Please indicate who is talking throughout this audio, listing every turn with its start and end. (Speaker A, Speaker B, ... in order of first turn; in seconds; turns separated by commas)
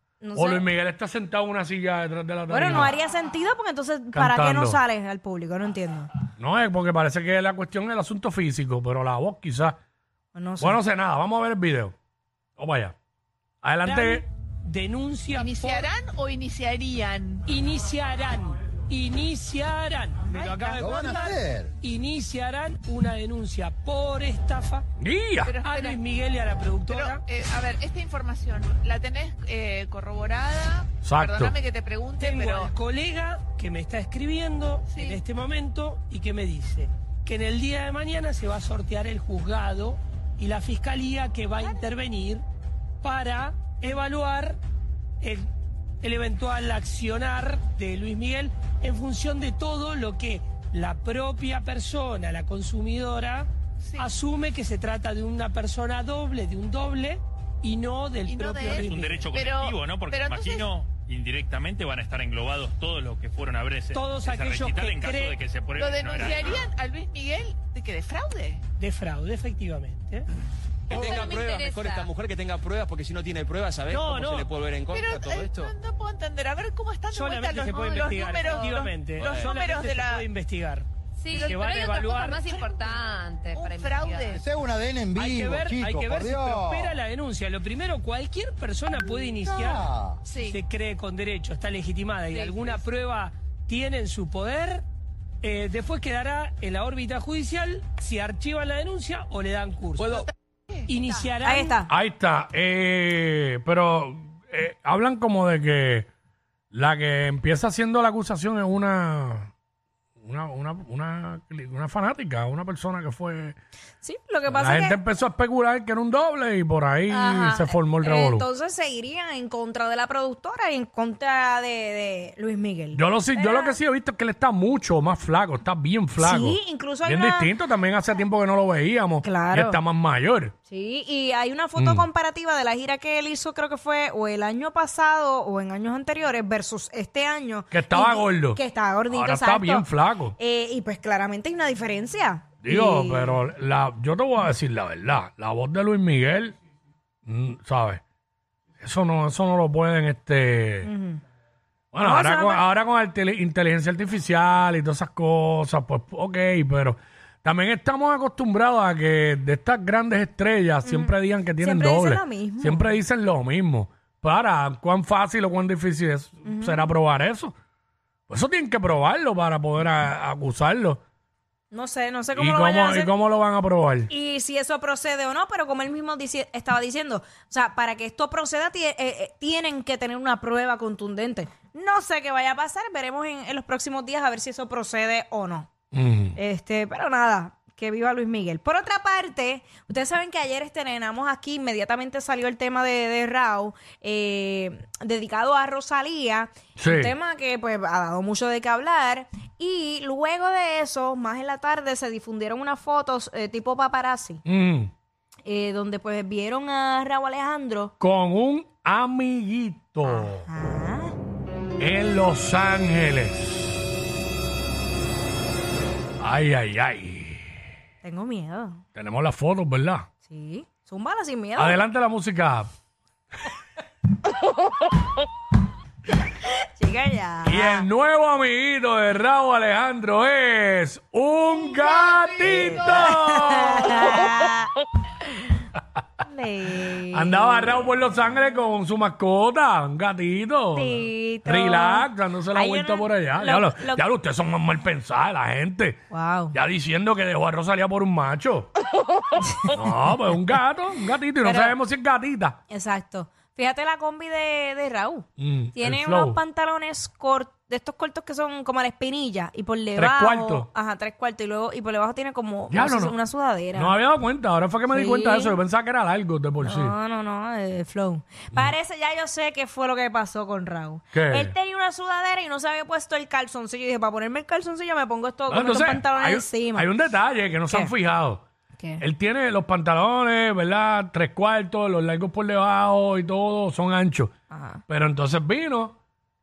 Speaker A: 0.2-0.7, Speaker B: 0.3-3.0, Speaker A: 2.5-6.1, Speaker B: 4.1-4.8, Speaker B: 6.4-9.8, Speaker A: 10.3-10.8, Speaker B: 10.6-11.9, Speaker B: 12.6-12.9, Speaker B: 13.6-14.2, Speaker C: 13.8-15.9, Speaker D: 15.3-17.4, Speaker C: 17.5-24.8, Speaker D: 20.3-21.3, Speaker E: 20.7-21.7, Speaker B: 25.0-25.6, Speaker D: 25.4-26.0, Speaker C: 25.6-27.2, Speaker D: 26.9-32.7, Speaker B: 31.0-31.6, Speaker C: 32.2-42.4, Speaker D: 34.9-35.2, Speaker C: 43.0-44.6, Speaker C: 45.2-45.5, Speaker C: 46.0-59.3, Speaker D: 53.8-54.1, Speaker D: 58.3-60.7, Speaker F: 58.9-66.6, Speaker C: 63.9-65.4, Speaker D: 65.8-68.6, Speaker C: 68.8-70.3, Speaker G: 70.9-75.7, Speaker H: 71.0-72.1, Speaker C: 73.9-74.5, Speaker D: 74.9-80.2, Speaker C: 77.1-82.5, Speaker G: 79.2-79.7, Speaker H: 81.2-84.4, Speaker D: 83.6-84.4, Speaker E: 84.3-87.0, Speaker C: 85.2-89.9, Speaker E: 89.4-90.2, Speaker D: 90.3-90.6, Speaker C: 90.5-94.8, Speaker D: 92.3-92.8, Speaker C: 95.4-100.3, Speaker D: 100.0-100.9, Speaker C: 100.9-101.8, Speaker A: 101.4-101.9, Speaker B: 101.9-106.1, Speaker B: 106.7-109.5, Speaker B: 110.2-113.6, Speaker A: 114.0-115.0, Speaker B: 114.5-118.5, Speaker A: 117.1-123.8, Speaker B: 122.9-130.5, Speaker A: 126.2-127.5, Speaker A: 129.2-129.8, Speaker A: 130.7-143.4, Speaker B: 131.8-132.1, Speaker B: 137.7-140.4, Speaker B: 142.6-146.6, Speaker B: 147.2-148.0, Speaker B: 148.8-150.9, Speaker A: 150.8-151.2, Speaker B: 151.9-167.5, Speaker A: 152.0-152.6, Speaker A: 160.8-162.9, Speaker A: 166.4-166.9, Speaker B: 168.3-171.0, Speaker A: 171.7-173.1, Speaker B: 172.3-174.1, Speaker A: 174.1-185.7, Speaker B: 185.9-186.4, Speaker A: 186.4-204.4, Speaker B: 196.8-197.1, Speaker B: 204.4-204.9, Speaker A: 205.4-207.9, Speaker B: 208.0-210.5, Speaker A: 210.0-211.2, Speaker B: 211.8-213.5, Speaker B: 216.2-217.5, Speaker A: 218.0-218.8, Speaker B: 218.9-220.1, Speaker A: 220.2-221.8, Speaker B: 221.6-222.7, Speaker A: 226.8-227.9, Speaker B: 227.4-234.4, Speaker A: 232.5-234.7, Speaker A: 236.2-237.7, Speaker B: 237.1-246.0, Speaker A: 240.7-244.0, Speaker A: 246.1-246.6, Speaker B: 246.5-248.7, Speaker A: 249.5-249.8, Speaker B: 249.7-252.6, Speaker A: 251.4-251.8, Speaker A: 252.7-264.0, Speaker B: 255.4-256.4, Speaker B: 260.0-260.7, Speaker B: 262.7-263.2, Speaker B: 263.7-266.9, Speaker A: 264.9-265.6, Speaker A: 266.6-276.9, Speaker B: 271.1-271.5, Speaker B: 275.5-278.4, Speaker A: 277.7-277.9, Speaker B: 279.0-284.3, Speaker A: 284.5-284.8, Speaker B: 284.9-286.0